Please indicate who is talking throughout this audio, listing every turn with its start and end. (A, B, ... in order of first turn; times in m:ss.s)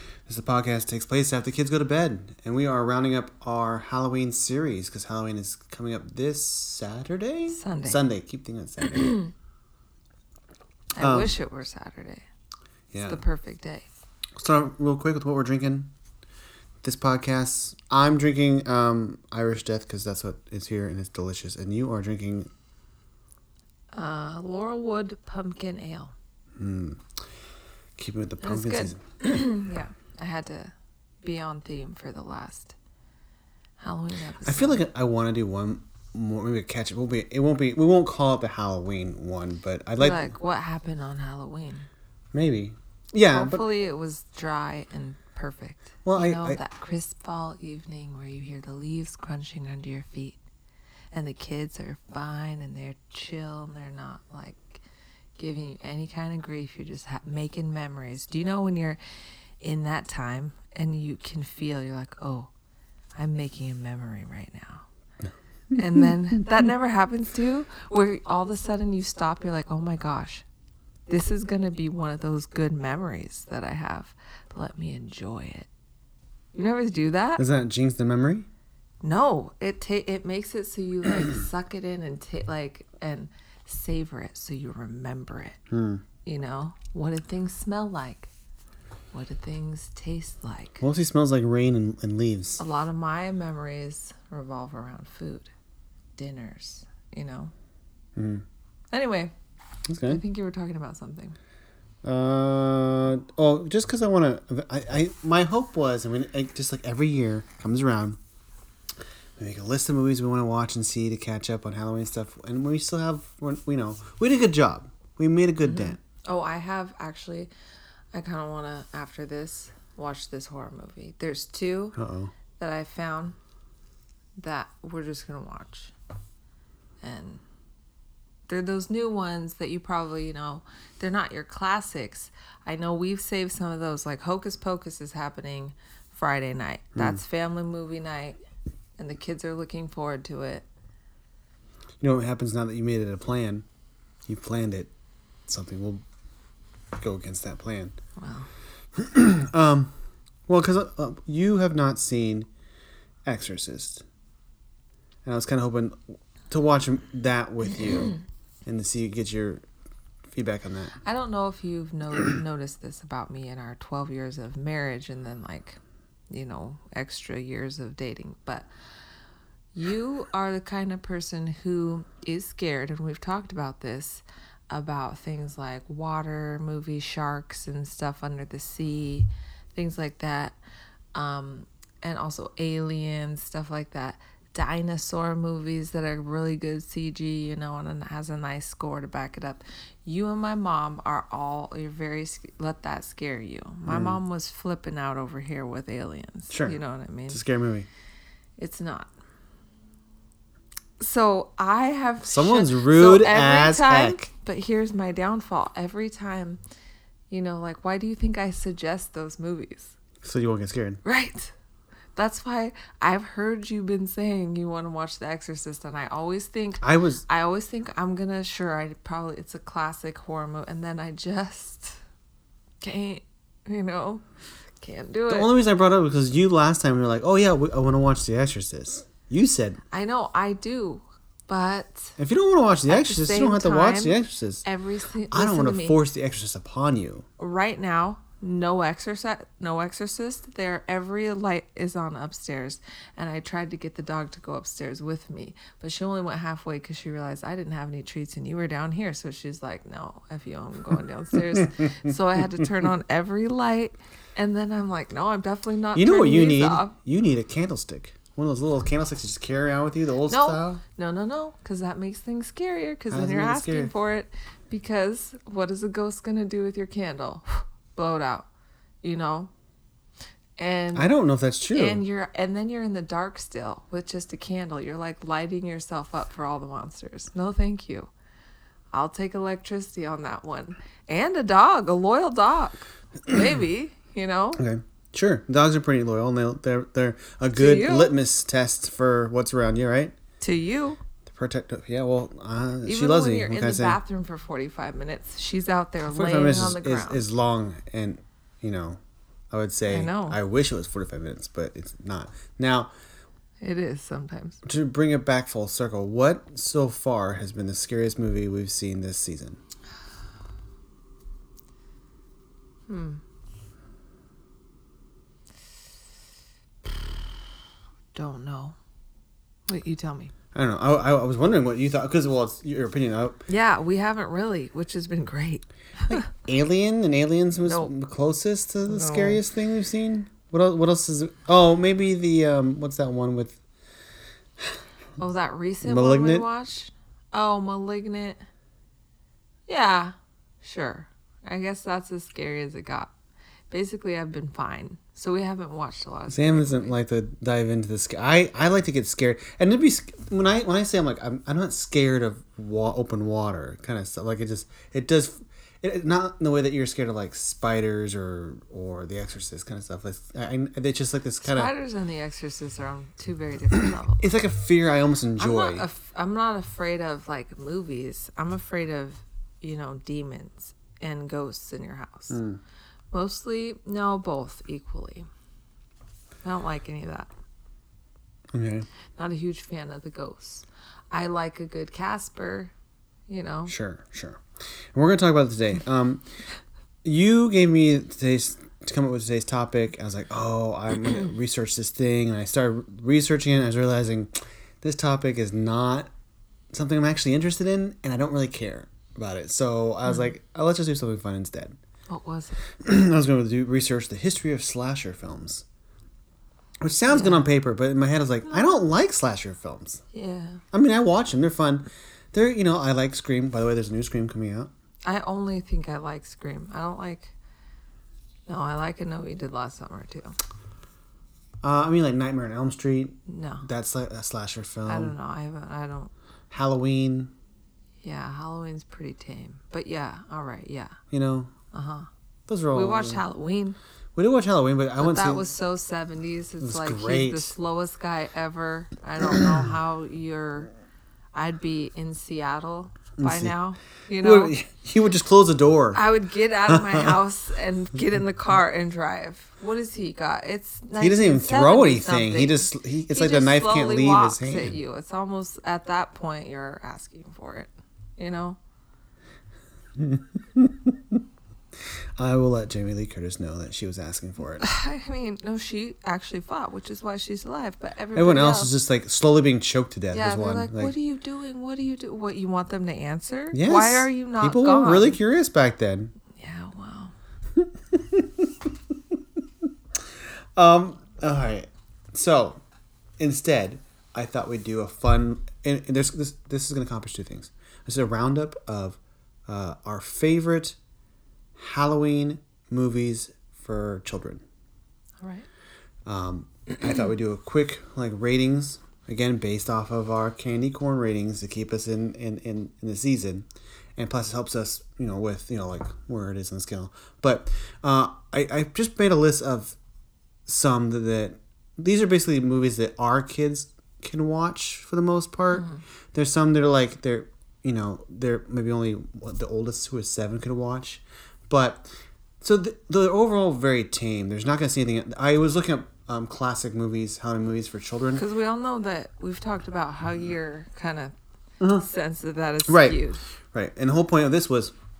0:00.3-0:09.2 A
0:07.5-0:08.0 B
0:11.0-0:12.2 B
0:11.0-0:11.4 A
0:12.9-0:13.2 A
0:13.0-0:13.9 B
0:14.4-0:15.9 A
0:16.8-0:22.5 A
0:23.9-0:26.1 B
0:26.6-0:27.0 A
0:28.0-0:29.0 A
0:28.4-0:30.7 B
0:31.2-0:32.7 B
0:33.8-0:34.8 B
0:34.4-0:40.3 A
0:40.0-0:41.9 B
0:42.3-0:43.6 A
0:43.3-0:50.4 B
0:46.0-0:46.6 A
0:51.1-0:54.8 B
0:55.4-0:59.0 B
0:59.6-1:02.5 B
1:03.1-1:04.8 B
1:05.7-1:10.4 B
1:11.1-1:15.7 B
1:16.5-1:17.4 B
1:17.4-1:18.5 A
1:19.0-1:25.6 B
1:25.7-1:26.0 A
1:26.2-1:28.3 B
1:29.1-1:30.8 B
1:30.8-1:32.6 A
1:32.6-1:35.5 B
1:36.2-1:37.5 B
1:38.2-1:38.4 A
1:38.9-1:39.3 B
1:39.9-1:40.2 A
1:40.0-1:41.4 B
1:42.0-1:48.2 A
1:49.4-1:56.0 A
1:55.6-1:57.5 B
1:58.1-2:02.0 B
2:02.0-2:02.3 A
2:02.6-2:03.4 B
2:04.4-2:05.9 B
2:07.0-2:07.4 B
2:08.5-2:18.4 B
2:17.0-2:17.2 A
2:19.0-2:20.6 B
2:22.0-2:23.6 A
2:24.3-2:24.9 A
2:25.5-2:26.0 A
2:27.0-2:27.9 A
2:28.2-2:28.5 B
2:29.0-2:29.9 A
2:30.5-2:32.5 A
2:33.2-2:34.0 A
2:35.2-2:36.0 A
2:36.5-2:39.6 A
2:40.3-2:41.0 A
2:41.0-2:48.7 B
2:49.7-3:00.6 B
3:01.1-3:17.4 B
3:13.9-3:14.2 A
3:16.5-3:17.9 A
3:18.6-3:19.1 B
3:21.0-3:26.6 B
3:22.2-3:24.3 A
3:27.3-3:29.9 B
3:30.2-3:31.0 A
3:31.0-3:31.5 B
3:32.2-3:42.0 B
3:36.8-3:37.2 A
3:42.8-3:44.2 B
3:44.8-3:45.5 B
3:45.3-3:49.8 A
3:49.9-3:52.2 B
3:52.2-3:54.6 A
3:52.9-3:56.0 B
3:55.3-3:57.2 A
3:57.4-4:17.0 B
4:11.3-4:12.6 A
4:15.9-4:20.8 A
4:20.3-4:28.5 B
4:23.1-4:23.9 A
4:29.0-4:29.5 B
4:30.6-4:31.1 B
4:30.9-4:32.0 A
4:31.7-4:38.1 B
4:38.9-4:44.6 B
4:44.6-4:50.1 A
4:47.5-4:48.1 B
4:50.4-4:51.0 B
4:51.2-4:54.0 A
4:52.8-4:57.2 B
4:56.1-4:59.0 A
4:59.5-5:02.9 A
4:59.9-5:00.4 B
5:03.6-5:04.6 B
5:04.6-5:09.6 A
5:12.9-5:13.2 B
5:18.1-5:18.8 B
5:19.7-5:20.3 B
5:20.5-5:23.4 A
5:23.5-5:26.3 B
5:26.1-5:33.6 A
5:27.6-5:27.9 B
5:28.8-5:29.4 B
5:35.2-5:38.4 B
5:35.8-5:36.5 A
5:39.7-5:43.1 B
5:43.7-5:46.9 B
5:46.3-6:01.7 A
6:01.4-6:04.3 B
6:03.7-6:05.8 A
6:05.4-6:12.4 B
6:12.3-6:12.6 A
6:13.1-6:15.3 B
6:16.4-6:17.3 B
6:18.5-6:18.9 A
6:19.2-6:22.7 B
6:23.3-6:23.7 B
6:23.7-6:24.4 A
6:24.9-6:26.2 A
6:27.0-6:34.3 A
6:34.8-6:36.1 A
6:36.7-6:41.8 A
6:42.1-6:42.7 B
6:42.8-6:45.6 A
6:46.8-6:50.0 A
6:47.1-6:47.4 B
6:50.1-6:50.6 B
6:50.7-6:54.7 A
6:55.0-6:57.3 B
6:58.5-7:00.4 B
7:01.6-7:05.1 A
7:03.3-7:03.6 B
7:04.9-7:06.1 B
7:06.5-7:07.3 A
7:08.0-7:11.0 B
7:11.1-7:11.5 A
7:11.7-7:12.1 B
7:12.5-7:13.2 A
7:12.7-7:13.8 B
7:14.2-7:15.4 A
7:15.0-7:20.7 B
7:16.6-7:17.5 A
7:19.3-7:19.7 A
7:21.3-7:24.5 B
7:23.2-7:23.5 A
7:24.2-7:26.0 A
7:25.9-7:38.6 B
7:26.7-7:27.2 A
7:31.0-7:34.8 A
7:40.0-7:41.2 A
7:42.2-7:44.6 A
7:44.6-7:48.7 B
7:48.1-7:50.9 A
7:50.1-7:55.2 B
7:53.5-7:56.1 A
7:56.3-7:57.1 B
7:57.6-7:58.7 A
8:00.6-8:02.6 A
8:03.2-8:10.8 A
8:11.6-8:14.4 A
8:15.2-8:15.4 B
8:16.0-8:29.8 A
8:30.5-8:41.9 A
8:35.5-8:35.8 B
8:42.4-8:48.2 A
8:48.1-8:51.1 B
8:51.7-8:53.2 B
8:52.6-8:53.0 A
8:53.5-8:54.7 A